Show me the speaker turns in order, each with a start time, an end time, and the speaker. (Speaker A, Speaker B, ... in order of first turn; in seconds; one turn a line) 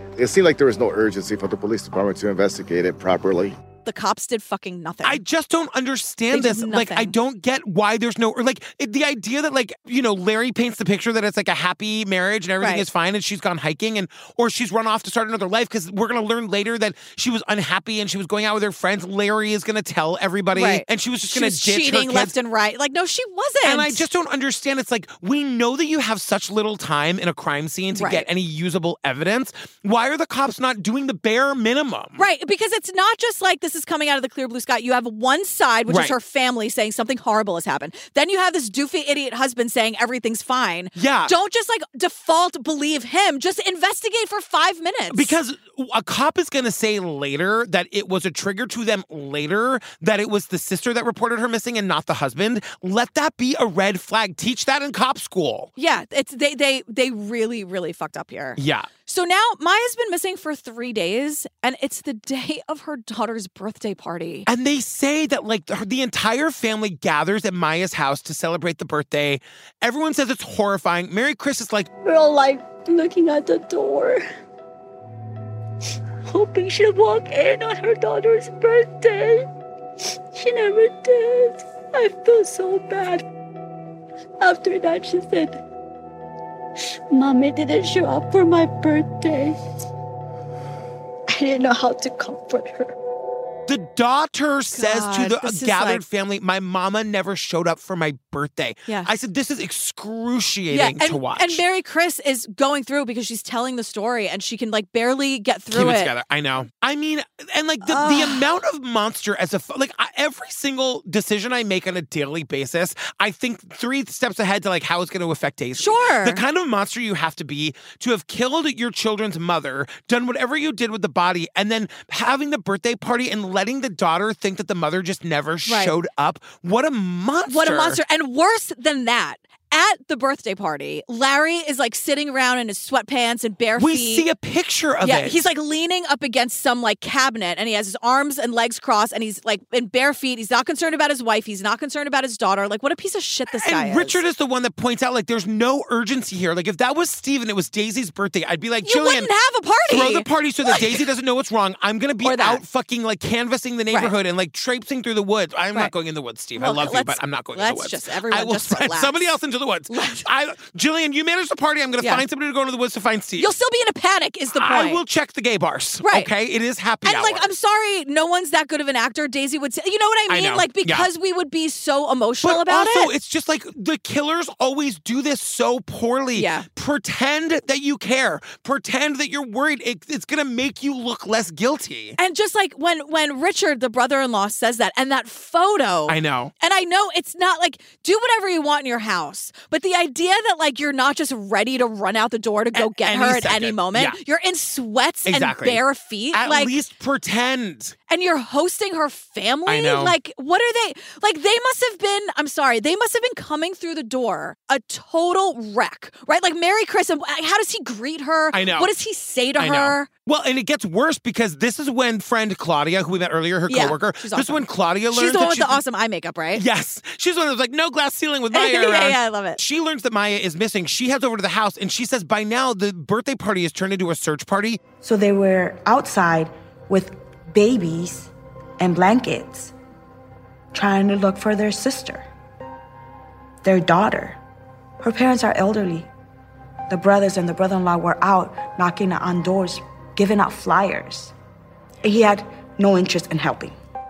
Speaker A: 0.1-3.6
Speaker B: 3.8-5.2
Speaker C: 5.0-22.3
Speaker B: 6.3-7.1
Speaker B: 20.5-24.0
Speaker C: 23.6-32.2
Speaker B: 27.9-28.2
Speaker B: 32.2-45.4
Speaker C: 35.9-36.1
Speaker C: 41.0-41.3
Speaker C: 45.1-55.7
Speaker B: 55.8-64.5
Speaker C: 58.6-58.9
Speaker C: 64.5-71.9
Speaker D: 72.0-74.2
Speaker D: 76.3-79.5
Speaker D: 80.3-83.2
Speaker D: 84.4-85.6
Speaker D: 86.8-89.6
Speaker D: 91.3-92.9
Speaker C: 93.7-101.6
Speaker B: 94.7-96.0
Speaker B: 100.7-106.1
Speaker C: 105.7-128.0
Speaker B: 107.8-108.5
Speaker B: 115.8-116.4
Speaker B: 125.7-125.9
Speaker B: 127.5-134.2
Speaker C: 133.8-135.5
Speaker B: 135.0-144.2
Speaker C: 143.5-149.3
Speaker B: 148.8-151.0
Speaker C: 149.9-163.5
Speaker B: 152.2-152.6
Speaker B: 156.6-159.3
Speaker B: 159.9-160.2
Speaker B: 163.4-165.0
Speaker C: 164.5-167.5
Speaker B: 166.0-166.3
Speaker B: 167.0-173.1
Speaker C: 170.3-171.1
Speaker C: 172.4-182.2
Speaker B: 176.3-176.7
Speaker B: 182.2-196.7
Speaker C: 186.1-186.5
Speaker C: 192.7-194.2
Speaker C: 195.2-197.9
Speaker B: 198.1-210.1
Speaker C: 199.7-200.1
Speaker C: 208.5-208.9
Speaker C: 209.6-215.8
Speaker B: 213.7-216.6
Speaker C: 216.5-224.8
Speaker B: 218.5-219.6
Speaker E: 225.0-229.7
Speaker E: 230.7-232.3
Speaker E: 233.6-234.4
Speaker E: 235.0-236.1
Speaker E: 236.9-241.3
Speaker E: 242.0-243.7